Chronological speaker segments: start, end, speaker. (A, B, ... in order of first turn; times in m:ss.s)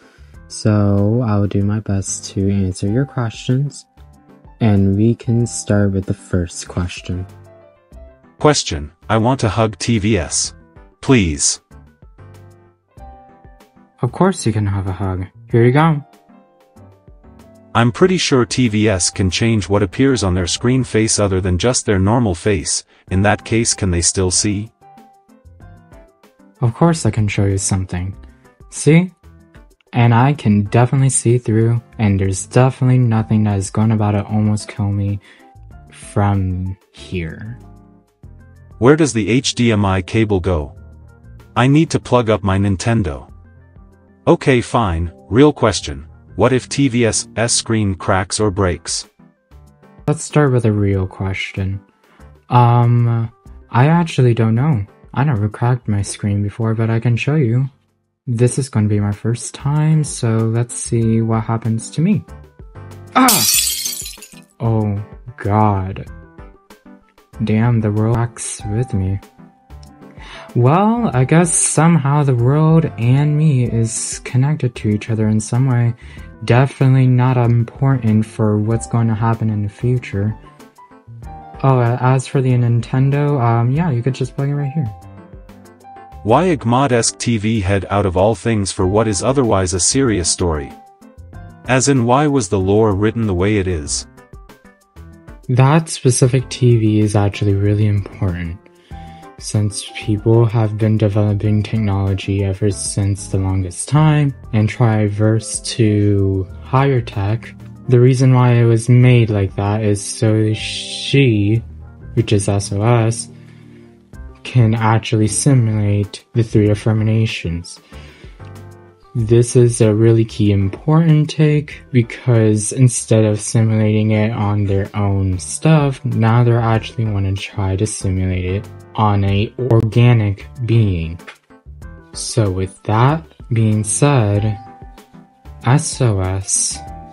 0:00.5-0:03.9 A
0:04.6-0:07.3 A
0:08.4-0:11.6 B
0:14.0-0:16.1 A
0:17.7-0:24.7 B
0:26.6-0:28.2 A
0:28.7-0:29.1 A
0:29.9-0:35.2 A
0:35.9-0:37.6 A
0:38.8-0:40.8 B
0:41.6-0:43.3 B
0:44.3-0:49.1 B
0:50.0-0:51.8 A
0:52.5-0:57.7 A
0:58.3-1:02.3 A
1:03.2-1:03.7 A
1:04.6-1:06.1 A
1:07.4-1:09.2 A
1:10.5-1:20.4 A
1:21.6-1:25.0 A
1:26.2-1:30.8 B
1:31.7-1:34.1 B
1:35.5-1:38.6 A
1:39.4-1:53.3 A
1:54.4-1:57.8 A
1:59.1-2:11.2 A
2:12.1-2:14.6 A
2:15.6-2:16.8 A